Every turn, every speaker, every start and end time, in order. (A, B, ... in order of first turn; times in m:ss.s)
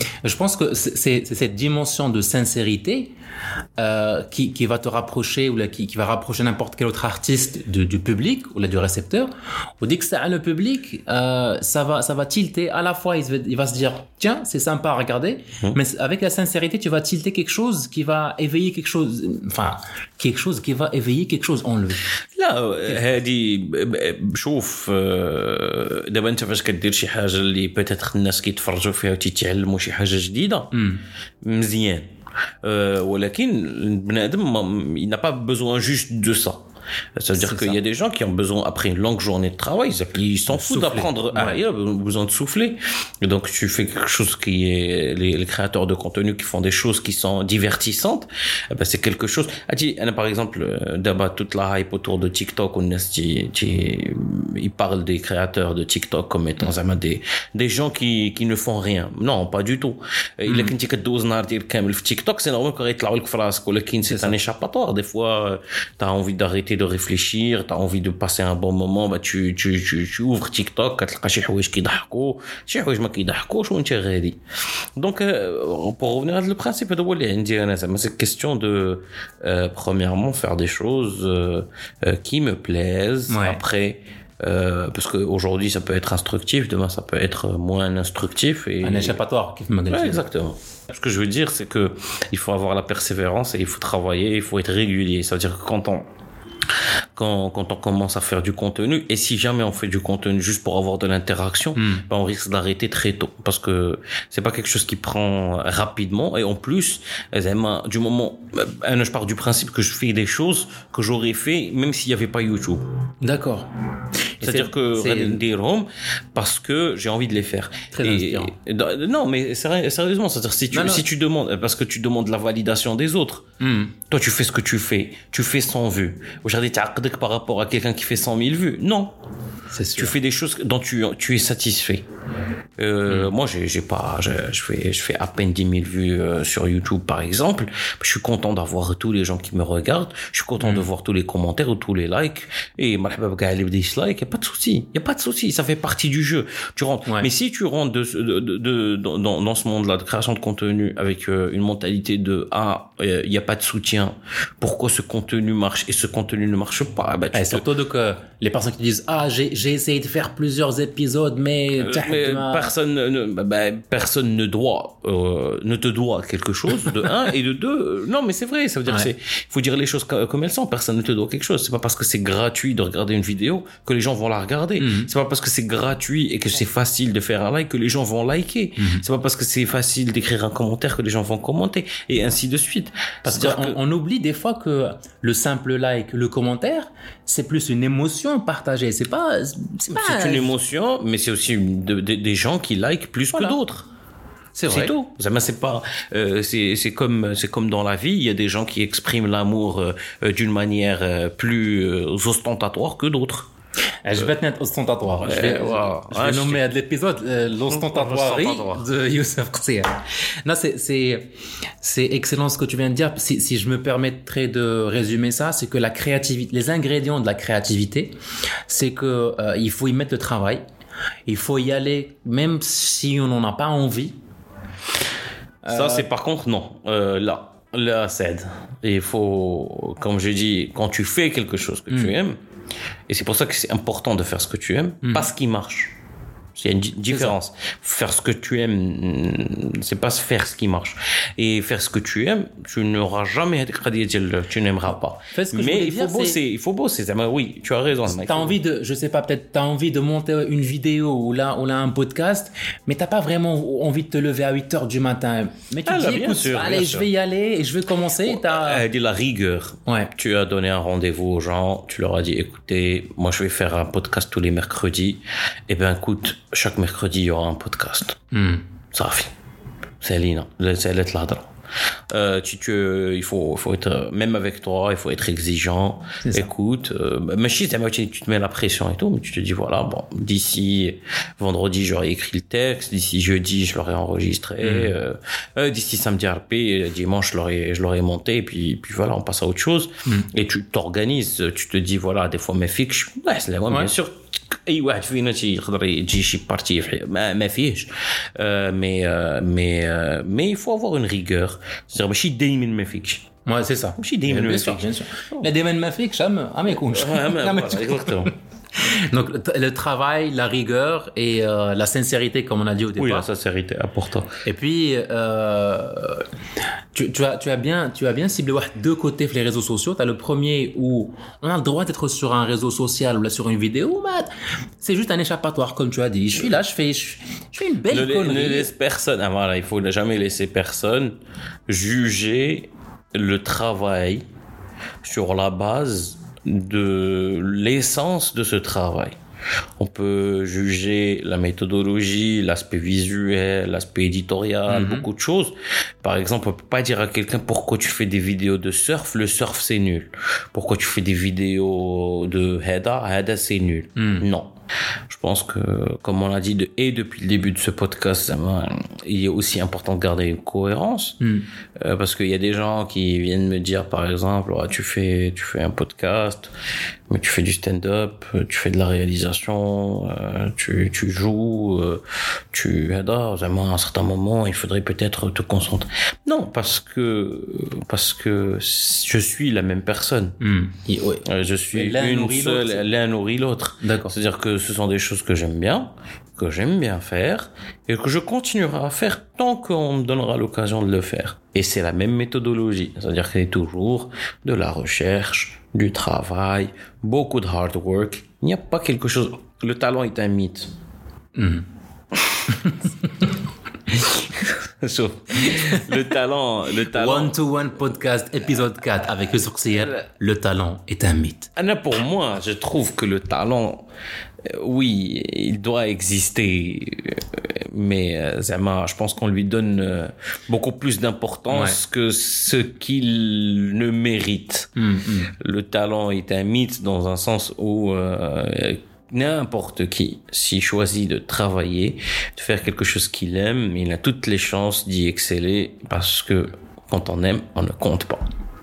0:00.2-0:03.1 A
0:03.8-0:09.3 A
0:09.8-0:22.0 A
0:22.3-0:30.7 B
0:30.7-0:31.0 A
0:31.4-0:32.0 B
0:32.6-0:36.6 B
0:37.2-1:14.4 B
0:37.4-0:37.8 A
0:40.5-0:41.6 A
1:00.4-1:00.7 A
1:04.0-1:04.3 A
1:15.0-1:29.2 B
1:23.3-1:23.6 A
1:28.8-1:30.2 A
1:29.9-1:36.1 B
1:37.2-1:52.8 B
1:41.8-1:42.0 A
1:53.2-1:53.7 A
1:54.4-1:55.4 A
1:54.4-2:03.4 B
1:57.9-1:58.5 A
2:00.7-2:01.0 A
2:03.6-2:03.9 A
2:04.1-2:09.1 B
2:09.7-2:10.2 A
2:10.0-2:12.0 B
2:12.8-2:37.6 B
2:20.6-2:20.9 A
2:37.3-2:42.7 A
2:41.8-3:03.8 B
2:48.8-2:49.1 A
2:54.8-2:55.1 A
2:58.8-2:59.0 A
3:03.2-3:10.5 A
3:09.9-3:13.9 B
3:13.3-3:13.6 A
3:14.5-3:14.9 A
3:14.7-3:23.5 B
3:24.0-3:38.1 A
3:25.2-3:26.6 B
3:27.7-3:28.8 B
3:38.7-3:40.6 A
3:41.3-3:44.1 A
3:45.6-3:46.1 A
3:45.7-3:52.4 B
3:53.1-3:55.9 B
3:55.0-3:55.3 A
3:56.6-4:08.6 B
4:05.3-4:06.4 A
4:08.0-4:18.8 A
4:15.8-4:17.1 B
4:18.2-4:28.2 B
4:19.8-4:20.1 A
4:28.3-4:28.6 A
4:28.9-4:29.3 B
4:30.0-4:31.5 B
4:32.1-5:03.2 B
4:36.2-4:36.5 A
4:44.6-4:44.9 A
5:03.4-5:13.3 A
5:04.0-5:05.5 B
5:06.7-5:08.3 B
5:13.0-5:14.4 B
5:14.4-5:16.2 A
5:16.9-5:24.3 A
5:24.8-5:28.7 A
5:27.9-5:31.2 B
5:31.7-5:34.2 B
5:35.0-5:39.1 B
5:39.8-5:54.5 B
5:44.7-5:45.1 A
5:54.0-5:54.3 A
5:55.1-6:01.2 B
6:01.2-6:01.5 A
6:01.8-6:06.5 B
6:07.1-6:12.0 B
6:12.5-6:20.4 B
6:20.4-6:22.8 A
6:21.2-6:40.7 B
6:23.8-6:24.1 A
6:41.4-6:41.6 A
6:43.9-6:47.6 B
6:46.9-6:51.5 A
6:51.6-6:53.8 B
6:54.5-7:04.7 B
7:01.5-7:01.8 A
7:04.8-7:05.3 A
7:05.4-7:18.2 B